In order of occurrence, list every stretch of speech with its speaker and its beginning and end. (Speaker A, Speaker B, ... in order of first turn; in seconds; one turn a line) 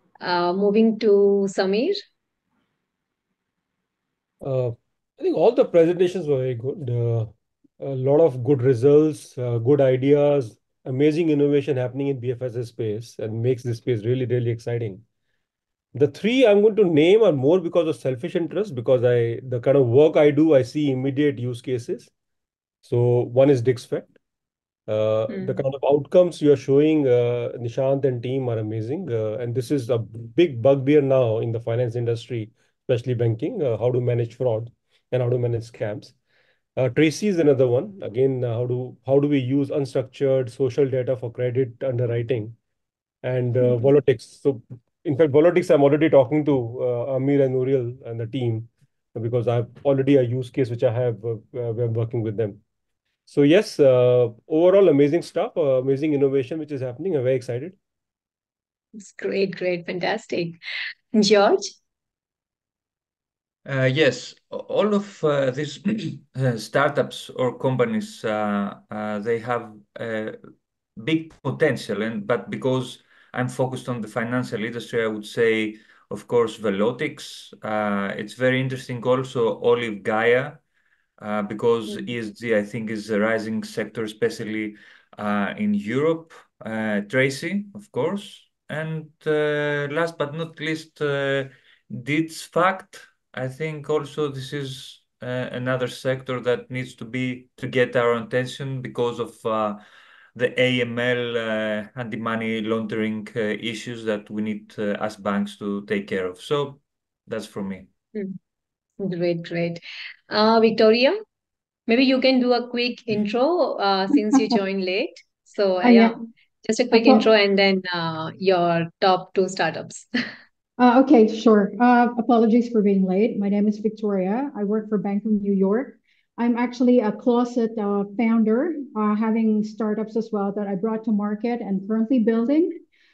Speaker A: 0.2-2.0
Speaker B: 4.4-15.0
Speaker B: 15.9-22.1
Speaker B: 22.8-24.1
Speaker B: 24.9-36.1
Speaker A: 25.3-25.6
Speaker B: 36.8-42.5
Speaker B: 43.2-52.6
Speaker B: 53.3-57.8
Speaker A: 59.0-60.6
Speaker A: 61.1-61.7
Speaker C: 63.6-70.4
Speaker C: 71.0-80.6
Speaker C: 81.2-99.8
Speaker C: 100.3-107.9
Speaker A: 109.0-111.2
Speaker A: 111.9-120.1
Speaker D: 115.8-116.2
Speaker D: 116.9-117.3
Speaker D: 120.8-132.8